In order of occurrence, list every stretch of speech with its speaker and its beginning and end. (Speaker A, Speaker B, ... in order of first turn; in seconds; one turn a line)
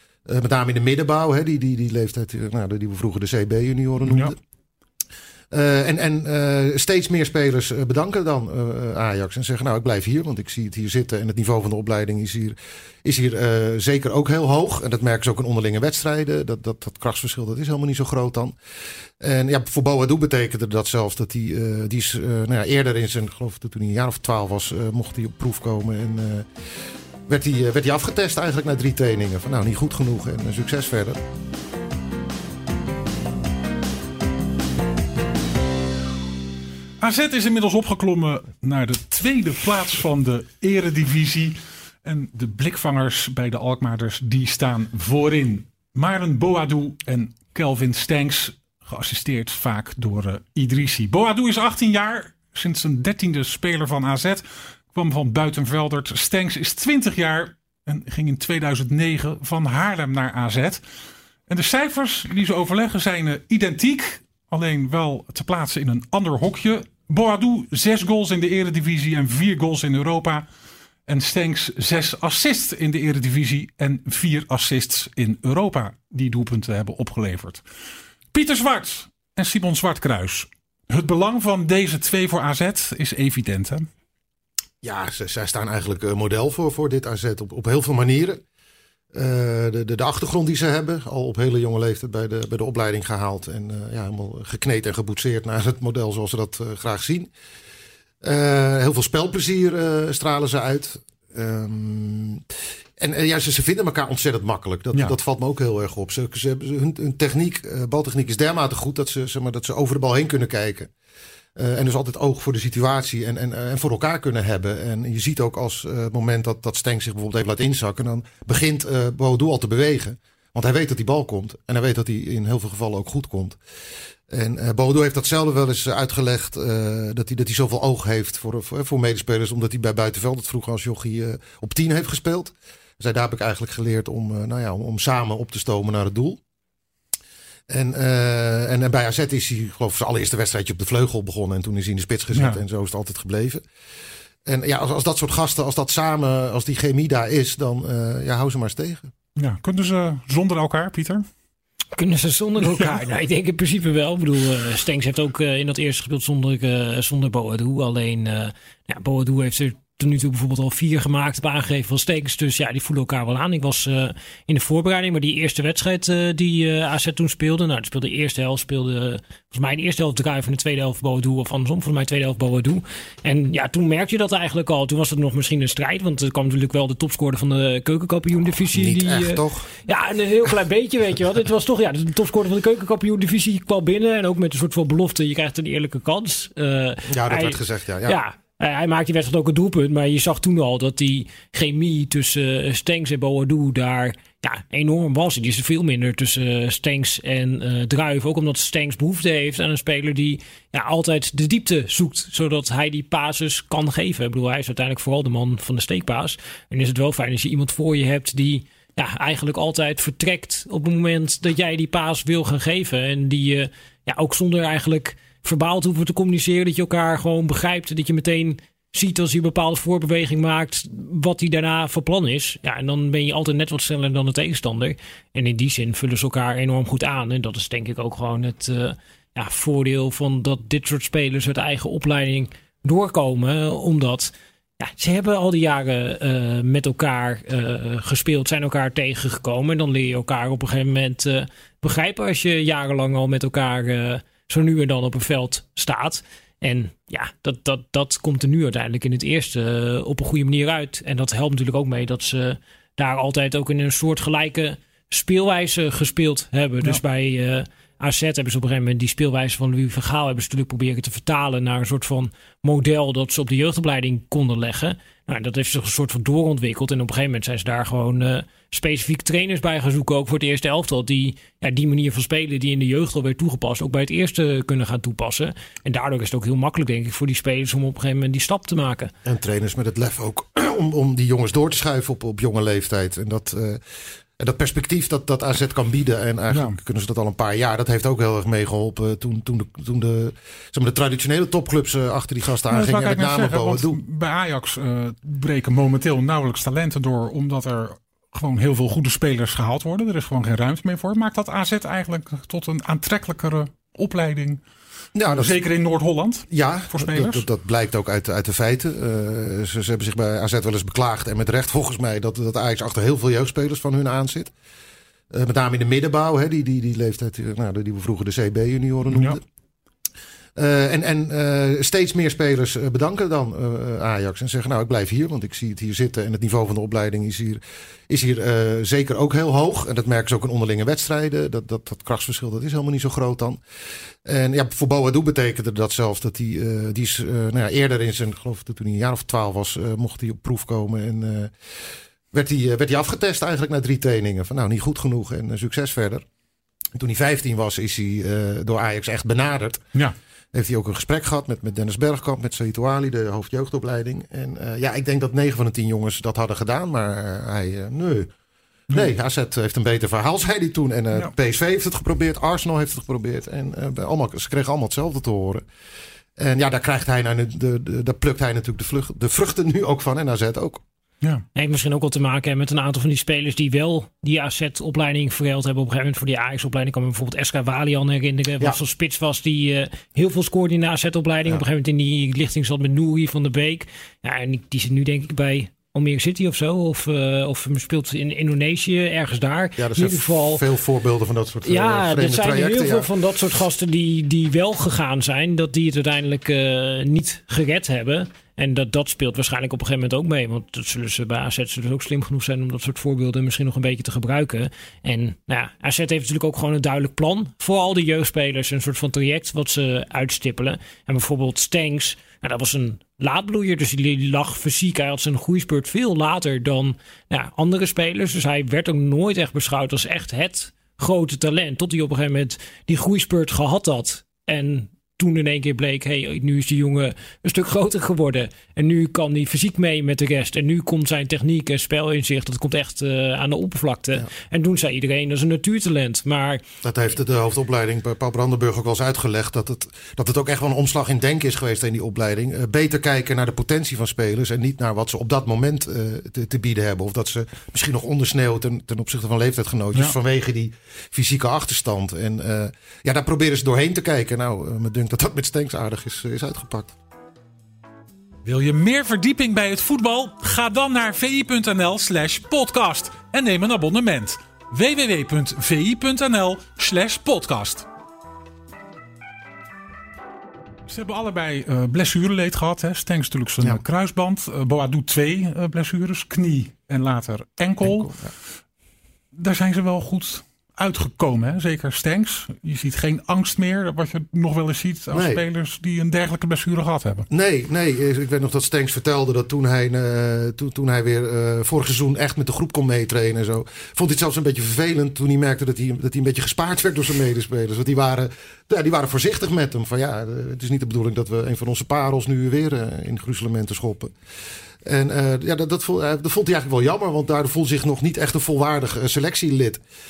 Speaker A: 0.2-4.4
Speaker B: 4.1-4.3
Speaker A: 5.5-18.5
Speaker A: 19.2-26.5
Speaker A: 27.3-31.2
Speaker B: 37.0-60.8
Speaker B: 61.5-70.5
Speaker B: 71.1-77.6
Speaker B: 78.3-83.9
Speaker A: 84.8-88.4
Speaker A: 89.1-97.3
Speaker A: 98.2-102.4
Speaker A: 103.0-110.9
Speaker A: 111.5-123.6
Speaker A: 124.3-136.4
Speaker A: 137.7-143.6
Speaker B: 142.3-142.6
Speaker A: 144.4-149.1
Speaker B: 149.3-151.2
Speaker C: 151.9-279.1
Speaker B: 152.6-153.0
Speaker A: 178.7-179.7
Speaker A: 187.1-188.2
Speaker A: 279.2-283.8
Speaker A: 284.4-294.0
Speaker B: 286.5-286.8
Speaker B: 292.7-304.6
Speaker A: 305.1-305.6
Speaker B: 305.3-307.4
Speaker A: 306.5-314.5
Speaker A: 315.3-319.4
Speaker B: 319.1-319.4
Speaker A: 320.6-333.6
Speaker A: 334.2-341.5
Speaker A: 342.3-346.2
Speaker A: 346.9-349.8
Speaker A: 350.5-358.3
Speaker A: 358.9-365.6
Speaker A: 366.4-370.8
Speaker C: 371.5-390.6
Speaker A: 389.8-393.1
Speaker C: 391.6-436.6
Speaker A: 436.8-456.9
Speaker B: 458.4-467.9
Speaker B: 470.9-478.2
Speaker A: 477.8-478.3
Speaker B: 479.3-487.3
Speaker A: 485.1-485.4
Speaker A: 487.3-504.1
Speaker A: 504.8-509.8